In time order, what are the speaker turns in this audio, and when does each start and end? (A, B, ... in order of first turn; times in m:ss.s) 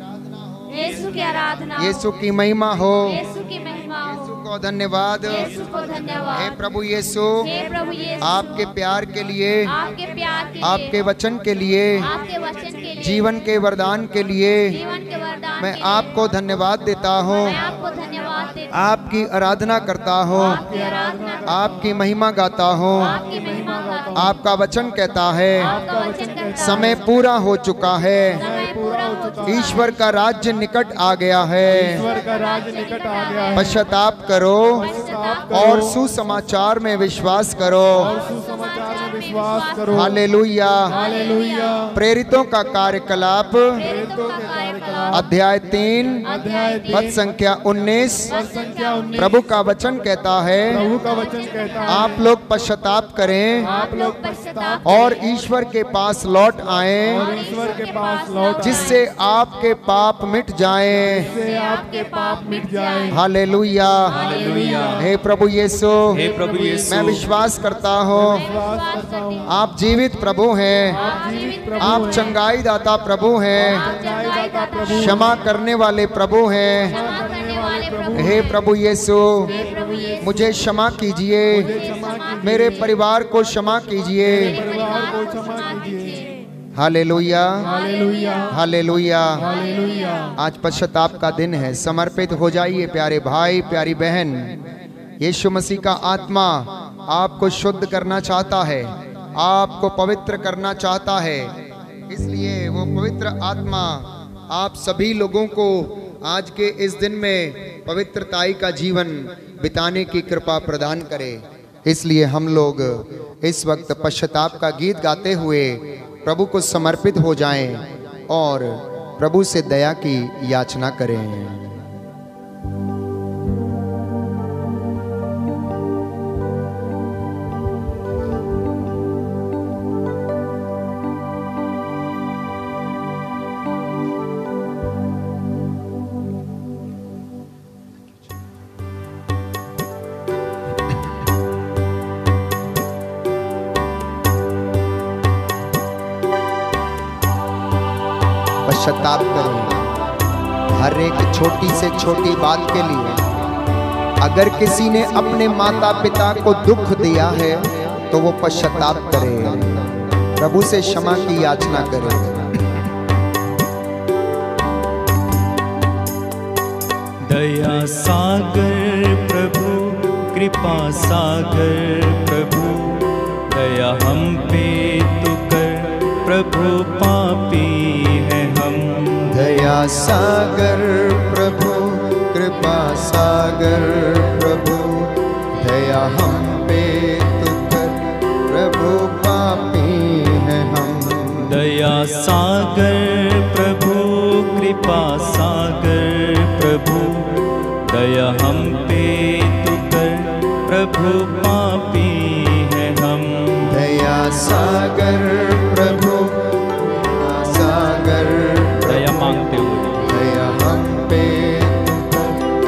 0:00.9-0:02.0 A
0:01.7-0:03.2 B
0:03.1-0:04.3 A
0:04.2-0:05.6 B
0:05.4-0:06.5 A
0:06.3-0:07.5 B
0:07.4-0:08.4 A
0:08.2-0:09.8 B
0:09.7-0:10.9 A
0:10.6-0:12.1 B
0:12.0-0:13.2 A
0:13.0-0:14.8 B
0:14.7-0:16.1 A
0:15.6-0:17.6 B
0:17.4-0:18.7 A
0:18.7-0:20.7 B
0:20.6-0:21.4 A
0:20.7-0:21.6 C
0:21.4-0:23.2 B
0:23.1-0:24.2 A
0:23.2-0:24.2 C
0:24.1-0:25.8 B
0:25.7-0:26.9 A
0:25.7-0:27.0 C
0:26.6-0:28.4 B
0:28.4-0:29.8 C
0:28.5-0:29.6 A
0:29.4-0:32.1 B
0:31.8-0:33.8 C
0:32.6-0:33.6 A
0:33.5-0:34.9 B
0:34.9-0:35.5 A
0:34.9-0:35.9 C
0:35.5-0:38.2 B
0:38.0-0:40.2 C
0:38.2-0:40.1 A
0:39.9-0:41.0 B
0:40.9-0:41.8 A
0:40.9-0:41.9 C
0:41.9-0:43.9 B
0:43.8-0:45.2 A
0:43.8-0:45.2 C
0:45.1-0:46.3 B
0:46.2-0:47.1 C
0:46.2-0:47.1 A
0:46.9-0:48.3 B
0:48.3-0:49.3 C
0:48.3-0:49.2 A
0:49.2-0:50.9 B
0:50.7-0:52.2 C
0:51.1-0:51.5 A
0:51.8-0:53.7 B
0:53.6-0:55.0 C
0:53.7-0:55.2 A
0:54.8-0:57.3 B
0:57.1-0:59.0 C
0:57.1-0:59.0 A
0:58.6-1:01.3 B
1:01.3-1:03.2 C
1:01.4-1:03.1 A
1:03.1-1:04.3 B
1:04.1-1:05.1 D
1:04.9-1:06.3 B
1:06.1-1:07.3 D
1:06.9-1:08.5 B
1:08.3-1:09.4 C
1:08.3-1:09.4 A
1:09.4-1:11.0 B
1:11.0-1:12.0 A
1:11.0-1:12.3 C
1:11.8-1:13.9 B
1:13.7-1:15.3 A
1:13.9-1:15.3 C
1:14.9-1:17.0 B
1:17.0-1:18.4 A
1:17.0-1:18.4 C
1:18.1-1:19.6 B
1:19.6-1:20.2 C
1:19.8-1:20.2 A
1:20.2-1:21.8 B
1:21.6-1:22.6 C
1:21.7-1:22.6 A
1:22.4-1:24.6 B
1:24.4-1:26.3 C
1:24.4-1:26.3 A
1:26.7-1:27.7 B
1:27.7-1:28.5 C
1:28.1-1:28.4 A
1:28.5-1:29.5 B
1:29.4-1:30.3 C
1:29.5-1:30.2 A
1:30.4-1:34.6 B
1:35.2-2:01.8 B
2:28.6-2:29.9 B
2:30.7-2:33.3 B
2:34.2-2:42.6 B
2:47.2-2:59.6 D
2:59.3-3:11.6 B
3:11.4-3:23.8 D
3:23.7-3:29.1 B
3:28.8-3:30.1 D
3:30.0-3:32.3 B